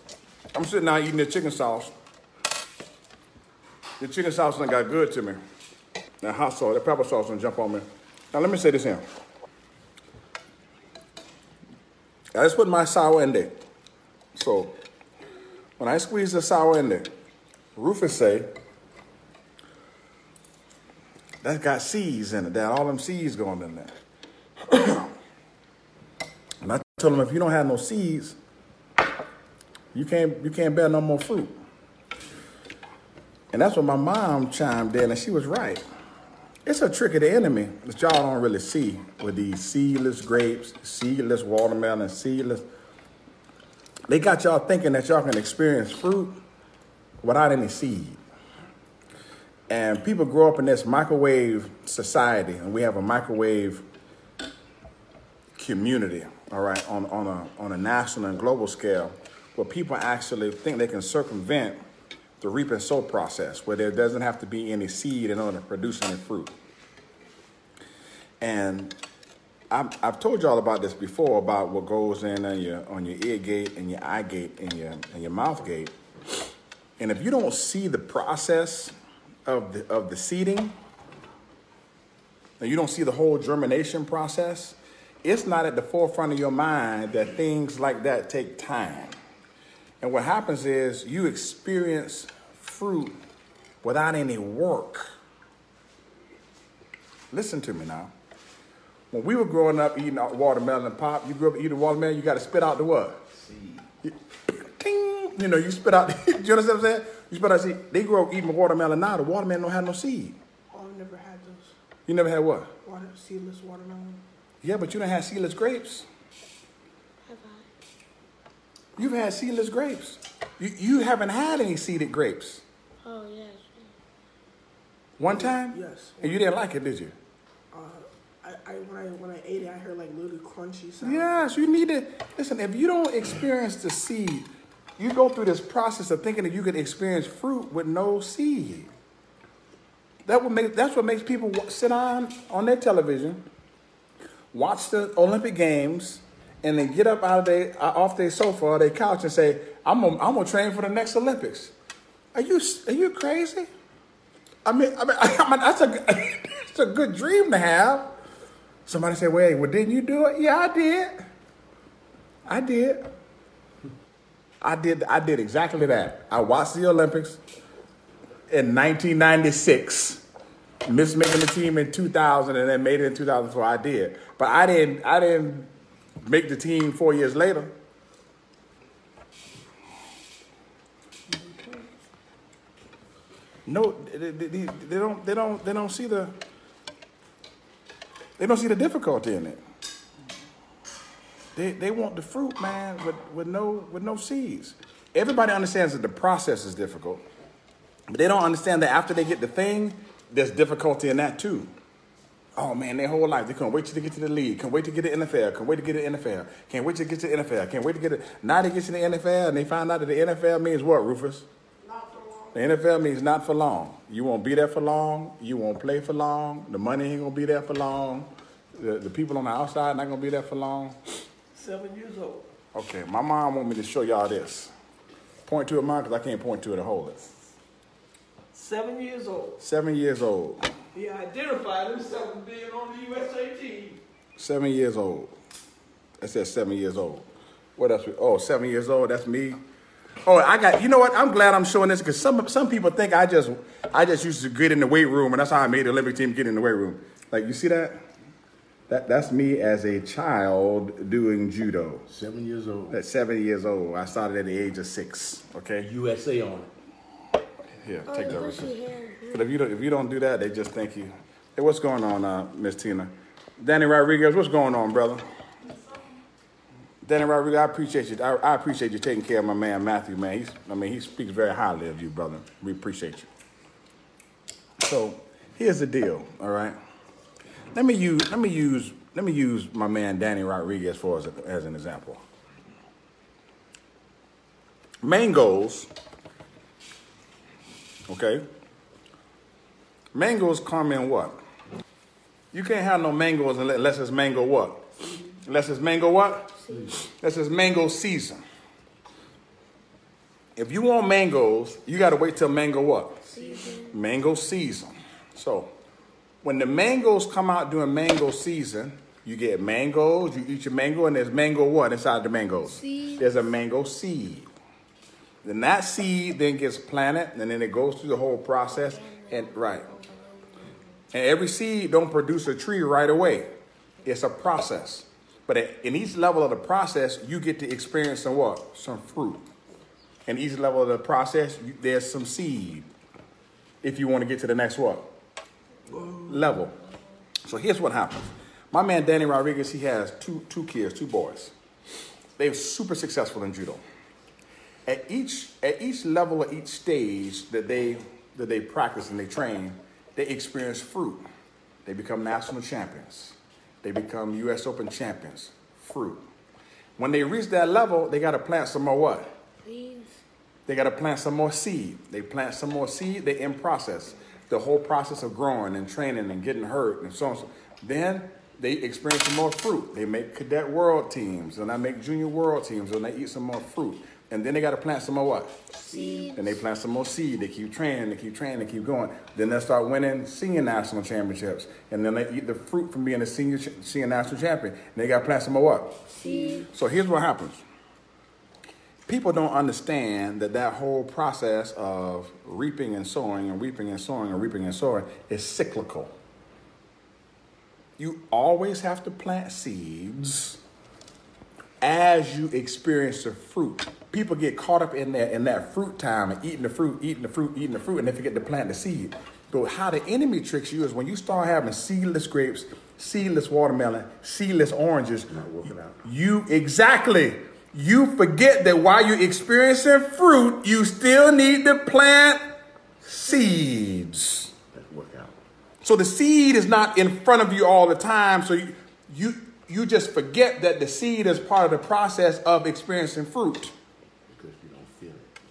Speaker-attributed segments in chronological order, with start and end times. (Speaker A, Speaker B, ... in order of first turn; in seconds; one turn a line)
Speaker A: 0.5-1.9
Speaker A: 4.0-5.4
Speaker A: 6.2-9.0
Speaker A: 12.3-13.5
Speaker A: 14.3-14.8
Speaker A: 15.8-17.1
Speaker A: 17.8-18.5
Speaker A: 21.4-23.9
Speaker A: 24.7-25.1
Speaker A: 26.6-28.4
Speaker A: 29.9-31.6
Speaker A: 33.5-35.8
Speaker A: 36.6-42.6
Speaker A: 44.1-46.4
Speaker A: 47.2-48.2
Speaker A: 49.7-53.8
Speaker A: 55.6-61.8
Speaker A: 62.4-66.5
Speaker A: 68.4-69.0
Speaker A: 69.7-75.9
Speaker A: 77.0-78.9
Speaker A: 79.5-80.7
Speaker A: 82.6-89.2
Speaker A: 90.0-93.2
Speaker A: 93.8-95.1
Speaker A: 97.3-98.1
Speaker A: 99.1-103.2
Speaker B: 103.4-103.8
Speaker A: 104.0-110.4
Speaker C: 110.7-111.7
Speaker A: 112.1-112.7
Speaker C: 112.8-114.2
Speaker A: 114.6-116.1
Speaker D: 117.3-117.7
Speaker A: 119.0-122.6
Speaker D: 123.0-123.9
Speaker A: 125.2-127.2
Speaker C: 125.2-126.4
Speaker C: 127.7-131.6
Speaker A: 131.0-138.9
Speaker A: 140.3-143.4
Speaker A: 144.5-151.7
Speaker A: 152.3-153.7
Speaker A: 154.7-158.1
Speaker A: 158.9-161.2
Speaker A: 162.5-163.0
Speaker A: 164.6-167.4
Speaker A: 168.5-170.2
Speaker A: 170.8-175.7
Speaker A: 176.2-177.7
Speaker C: 181.4-181.8
Speaker A: 183.7-186.3
Speaker A: 188.4-189.6
Speaker A: 191.6-197.2
Speaker A: 198.1-201.7
Speaker A: 202.6-211.5
Speaker C: 211.9-212.5
Speaker A: 212.5-221.0
Speaker C: 221.6-222.4
Speaker A: 222.7-224.7
Speaker A: 225.4-227.3
Speaker C: 228.5-229.6
Speaker A: 229.6-230.7
Speaker C: 230.9-234.0
Speaker A: 234.4-235.3
Speaker A: 236.2-239.6
Speaker A: 240.2-248.0
Speaker A: 248.9-252.1
Speaker B: 252.1-253.0
Speaker A: 252.9-255.9
Speaker B: 255.8-256.7
Speaker A: 257.8-258.8
Speaker D: 258.1-259.5
Speaker A: 259.3-265.2
Speaker A: 267.0-273.3
Speaker A: 274.8-276.8
Speaker A: 277.7-282.2
Speaker A: 285.0-285.9
Speaker A: 288.1-288.4
Speaker A: 290.1-291.4
Speaker A: 292.5-294.9
Speaker A: 295.4-298.4
Speaker A: 300.6-303.3
Speaker D: 303.3-304.0
Speaker A: 303.9-305.7
Speaker A: 306.4-314.5
Speaker D: 312.7-313.2
Speaker A: 315.4-320.0
Speaker D: 318.7-320.9
Speaker A: 321.1-323.5
Speaker A: 324.0-329.5
Speaker A: 330.3-332.9
Speaker A: 333.8-335.1
Speaker A: 336.0-336.8
Speaker A: 337.4-341.5
Speaker A: 342.4-343.8
Speaker A: 344.9-351.2
Speaker A: 351.9-356.3
Speaker A: 357.0-359.3
Speaker D: 359.6-360.2
Speaker A: 360.7-375.5
Speaker D: 375.7-376.5
Speaker B: 375.9-376.3
Speaker A: 376.3-386.0
Speaker D: 386.1-386.7
Speaker A: 386.5-387.6
Speaker A: 389.1-396.1
Speaker A: 398.0-400.6
Speaker A: 401.8-415.5
Speaker B: 415.3-416.1
Speaker A: 416.0-422.4
Speaker A: 423.0-424.5
Speaker B: 424.7-425.4
Speaker A: 425.8-433.7
Speaker B: 434.3-435.3